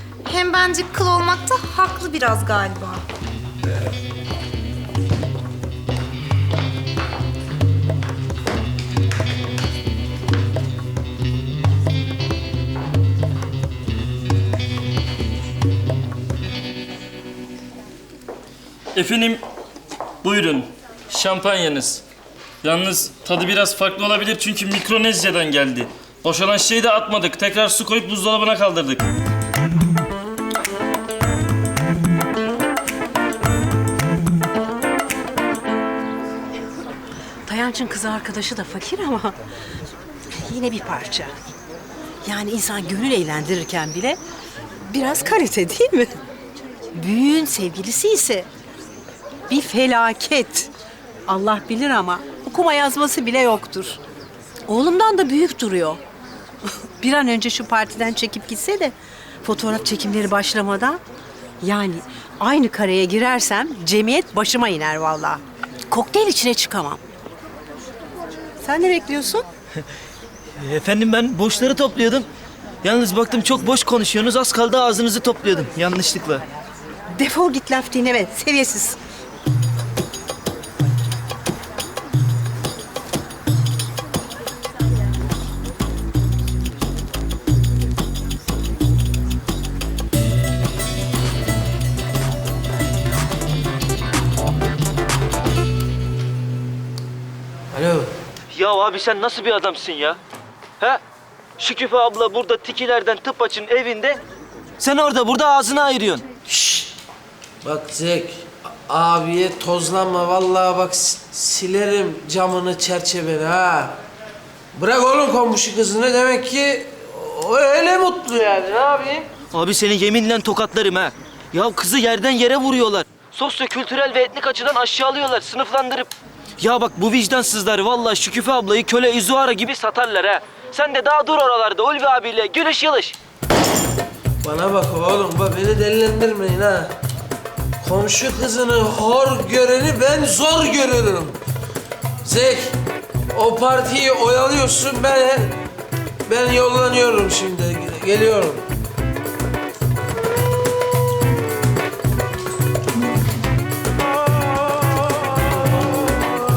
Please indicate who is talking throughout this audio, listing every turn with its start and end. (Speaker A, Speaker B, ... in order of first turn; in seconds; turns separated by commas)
Speaker A: 0.2-3.0, Speaker B: 18.9-19.4, Speaker B: 20.2-22.0, Speaker B: 22.6-29.1, Speaker C: 37.5-39.4, Speaker C: 40.4-41.3, Speaker C: 42.2-44.2, Speaker C: 44.9-46.1, Speaker C: 46.9-48.5, Speaker C: 49.5-50.7, Speaker C: 51.3-54.0, Speaker C: 54.7-56.0, Speaker C: 57.0-61.0, Speaker C: 61.6-67.0, Speaker C: 68.6-69.5, Speaker D: 70.6-72.3, Speaker D: 72.8-76.4, Speaker C: 77.1-79.0, Speaker E: 97.7-98.1, Speaker D: 98.5-100.2, Speaker D: 101.6-104.2, Speaker D: 104.8-106.2, Speaker E: 106.5-106.8, Speaker E: 107.6-108.3, Speaker E: 108.9-113.9, Speaker E: 114.8-119.2, Speaker D: 119.5-133.2, Speaker E: 134.4-136.9, Speaker E: 137.8-141.3, Speaker E: 142.2-142.7, Speaker E: 143.3-145.5, Speaker E: 146.3-148.6